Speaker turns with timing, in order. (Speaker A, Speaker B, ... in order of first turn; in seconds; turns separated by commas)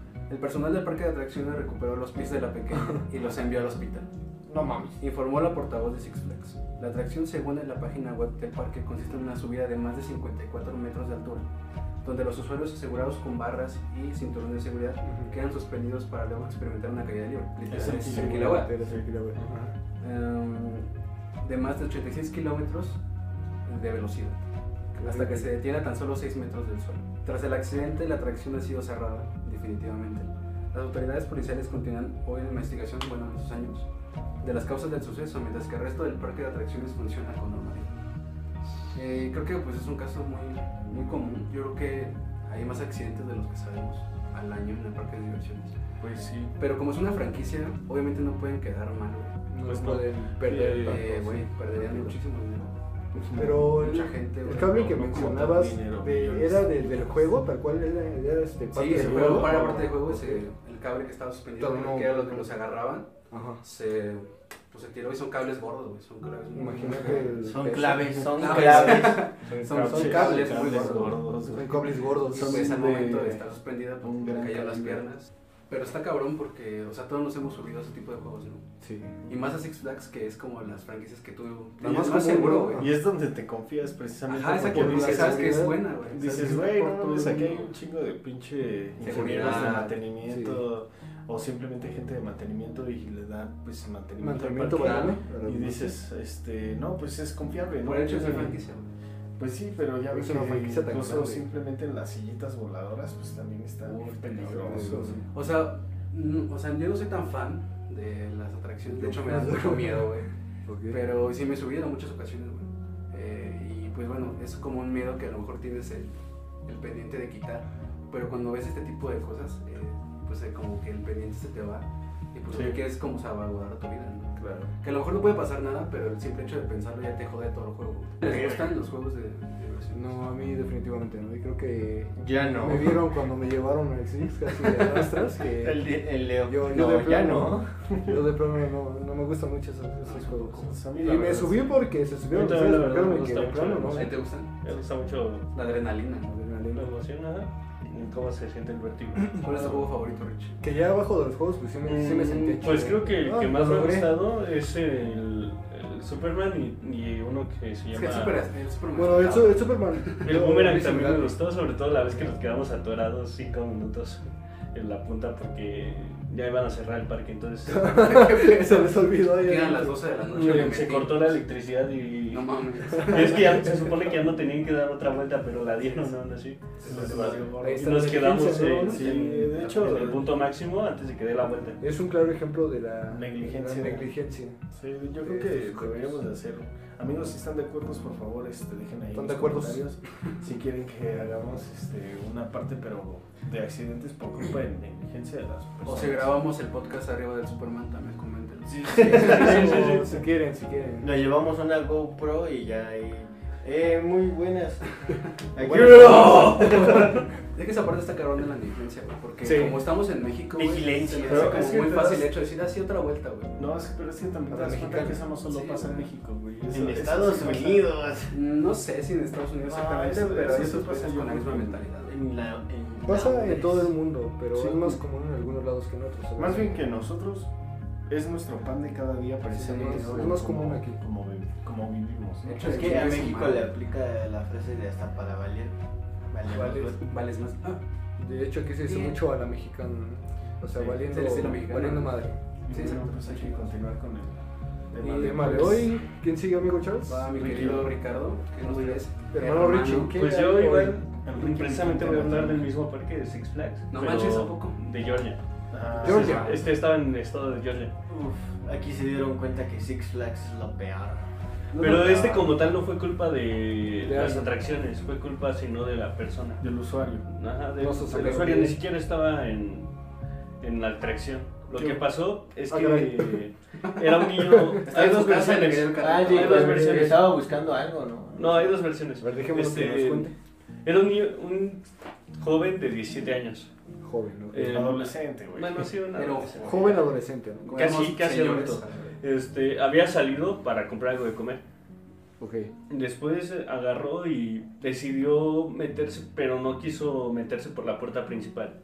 Speaker A: 0.3-4.1, Speaker B: 4.5-5.0, Speaker A: 5.0-11.4, Speaker A: 12.0-18.7, Speaker B: 15.0-15.3, Speaker C: 17.7-19.6, Speaker B: 17.8-19.7, Speaker A: 20.0-20.9, Speaker A: 21.4-23.0, Speaker A: 23.6-24.4, Speaker B: 24.9-25.5, Speaker A: 25.0-33.9, Speaker A: 34.4-37.9, Speaker A: 38.9-45.7, Speaker C: 46.0-46.5, Speaker A: 46.6-49.3, Speaker B: 49.5-52.1, Speaker C: 49.6-51.0, Speaker A: 50.8-52.7, Speaker C: 53.1-53.8, Speaker B: 53.3-60.4, Speaker A: 53.5-55.1, Speaker C: 54.5-57.1, Speaker A: 58.7-63.1, Speaker C: 58.9-60.1, Speaker B: 61.6-62.5, Speaker B: 63.3-63.6, Speaker A: 63.6-67.4, Speaker B: 66.5-72.7, Speaker D: 67.4-69.3, Speaker A: 68.3-71.2, Speaker C: 69.6-73.5, Speaker A: 72.3-78.6, Speaker C: 74.0-75.0, Speaker B: 78.8-79.1, Speaker A: 79.3-82.9, Speaker B: 81.8-82.9, Speaker C: 82.7-98.6, Speaker A: 84.3-87.7, Speaker B: 84.6-86.6, Speaker A: 89.0-90.0, Speaker B: 89.4-89.7, Speaker B: 90.2-90.6, Speaker B: 94.2-95.9, Speaker A: 94.7-95.2, Speaker A: 97.8-98.9, Speaker C: 99.4-105.2, Speaker B: 100.1-101.5, Speaker A: 103.8-110.3, Speaker B: 104.6-105.3, Speaker B: 108.9-111.0, Speaker A: 110.9-130.2, Speaker C: 122.5-122.8, Speaker D: 128.2-128.7, Speaker B: 129.9-135.9, Speaker D: 132.2-133.1, Speaker D: 135.5-138.0, Speaker B: 136.4-144.2, Speaker A: 140.1-140.7, Speaker C: 140.6-141.8, Speaker E: 142.3-145.5, Speaker A: 143.9-144.5, Speaker A: 145.5-146.4, Speaker B: 146.3-146.9, Speaker E: 146.7-149.7, Speaker A: 149.4-150.6, Speaker B: 150.6-154.2, Speaker E: 151.8-158.4, Speaker A: 157.9-160.2, Speaker B: 158.9-161.4, Speaker E: 160.2-168.2, Speaker B: 167.7-170.0, Speaker A: 167.9-171.4, Speaker E: 170.3-181.8, Speaker A: 172.3-173.7, Speaker A: 176.8-177.4, Speaker C: 176.8-180.3, Speaker B: 177.6-179.2, Speaker B: 181.8-184.6, Speaker C: 183.1-184.1, Speaker C: 184.7-196.4, Speaker B: 185.2-186.2, Speaker B: 189.1-189.8, Speaker A: 195.8-199.7, Speaker D: 198.8-199.7, Speaker E: 199.1-200.1, Speaker B: 199.1-201.1, Speaker D: 201.0-207.2, Speaker A: 205.7-213.5, Speaker E: 206.0-206.8, Speaker B: 209.4-209.8, Speaker D: 210.5-211.7, Speaker C: 211.2-212.3, Speaker C: 213.6-217.9, Speaker B: 214.5-215.2, Speaker A: 215.5-216.1, Speaker D: 216.7-218.3, Speaker A: 218.3-222.1, Speaker C: 219.6-221.8, Speaker D: 222.0-223.9, Speaker B: 223.0-226.8, Speaker C: 224.6-224.9, Speaker C: 226.4-227.5, Speaker C: 228.1-232.9, Speaker B: 229.5-231.0, Speaker A: 232.4-233.7, Speaker D: 232.6-235.8, Speaker D: 236.3-237.0, Speaker B: 236.5-236.9, Speaker A: 236.9-237.8, Speaker B: 238.2-242.4, Speaker C: 240.7-241.0, Speaker A: 241.1-243.7, Speaker C: 242.6-244.4, Speaker C: 244.9-245.9, Speaker B: 245.0-247.3, Speaker A: 245.0-245.7, Speaker A: 247.1-250.2, Speaker C: 247.4-247.9, Speaker E: 247.4-247.7, Speaker B: 249.3-251.0, Speaker E: 250.1-255.4, Speaker C: 251.1-252.7, Speaker A: 253.9-254.8, Speaker C: 255.7-256.5, Speaker E: 255.9-257.9, Speaker B: 256.0-256.6, Speaker D: 258.1-261.3, Speaker E: 261.7-266.6, Speaker C: 261.9-262.5, Speaker B: 264.0-264.5, Speaker C: 266.6-267.2, Speaker E: 267.2-269.9, Speaker B: 267.8-268.8, Speaker E: 270.6-277.4, Speaker C: 271.7-272.0, Speaker B: 272.7-273.4, Speaker B: 274.5-274.8, Speaker A: 274.8-277.2, Speaker D: 275.9-278.8, Speaker E: 278.3-280.3, Speaker B: 279.2-280.3, Speaker E: 280.8-281.8, Speaker E: 282.4-283.7, Speaker B: 284.0-285.0, Speaker E: 284.5-287.0, Speaker C: 284.6-285.9, Speaker A: 286.1-287.0, Speaker B: 286.6-287.9, Speaker A: 287.6-289.2, Speaker E: 287.7-291.6, Speaker B: 292.4-292.7, Speaker E: 292.9-298.8